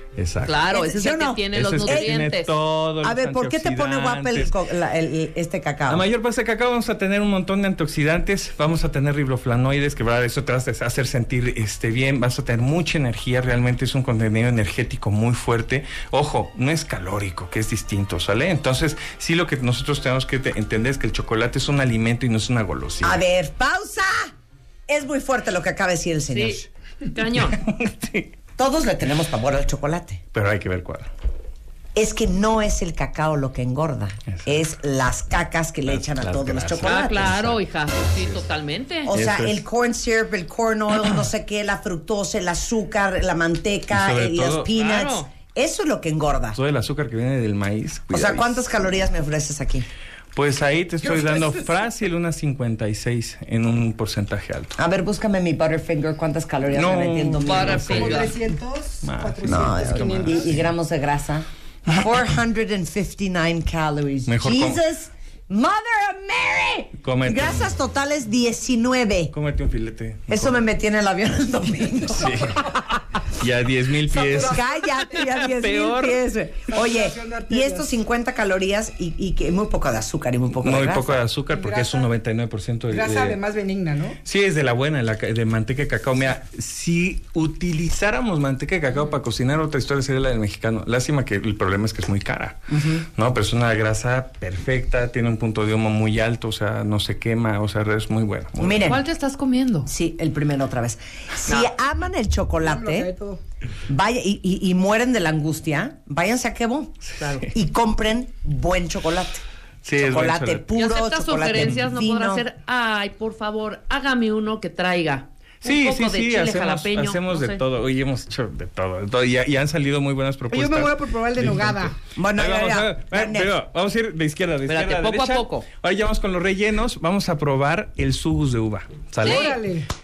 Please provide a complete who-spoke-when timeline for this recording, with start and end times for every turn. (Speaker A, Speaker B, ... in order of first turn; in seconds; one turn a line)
Speaker A: 0.2-0.6
Speaker B: 0.4-2.5
Speaker C: 0.7-2.2
Speaker A: 1.5-4.5
Speaker C: 3.0-6.0
Speaker A: 5.9-23.2
Speaker C: 23.0-24.3
Speaker C: 24.9-26.7
Speaker B: 26.3-27.6
Speaker A: 27.5-28.3
Speaker C: 28.6-30.2
Speaker A: 30.3-31.1
Speaker C: 31.9-37.5
Speaker A: 34.3-34.6
Speaker A: 35.9-37.6
Speaker B: 36.8-39.1
Speaker C: 39.1-46.6
Speaker A: 39.1-39.6
Speaker A: 43.9-44.7
Speaker B: 44.7-45.3
Speaker A: 46.5-48.8
Speaker C: 48.1-49.9
Speaker A: 50.4-54.8
Speaker D: 51.0-51.6
Speaker C: 54.8-58.1
Speaker A: 56.7-58.4
Speaker B: 57.4-58.4
Speaker D: 57.9-60.5
Speaker A: 59.0-60.6
Speaker C: 59.4-69.3
Speaker A: 64.3-64.8
Speaker A: 67.0-67.6
Speaker A: 69.3-70.6
Speaker C: 70.3-72.8
Speaker A: 72.2-76.2
Speaker D: 74.1-75.2
Speaker C: 74.1-81.2
Speaker D: 76.7-77.9
Speaker A: 80.6-83.4
Speaker D: 81.5-82.1
Speaker D: 82.9-84.2
Speaker A: 84.2-99.0
Speaker C: 92.7-93.1
Speaker C: 98.6-99.0
Speaker B: 98.8-99.9
Speaker C: 99.9-103.1
Speaker D: 102.6-103.4
Speaker C: 103.9-107.0
Speaker A: 107.1-107.5
Speaker B: 107.2-107.5
Speaker C: 107.5-109.4
Speaker A: 109.8-110.7
Speaker C: 110.0-112.5
Speaker B: 110.8-117.6
Speaker A: 115.6-129.6
Speaker D: 120.5-122.0
Speaker C: 122.2-123.5
Speaker B: 124.7-125.7
Speaker B: 129.2-129.6
Speaker D: 129.2-129.9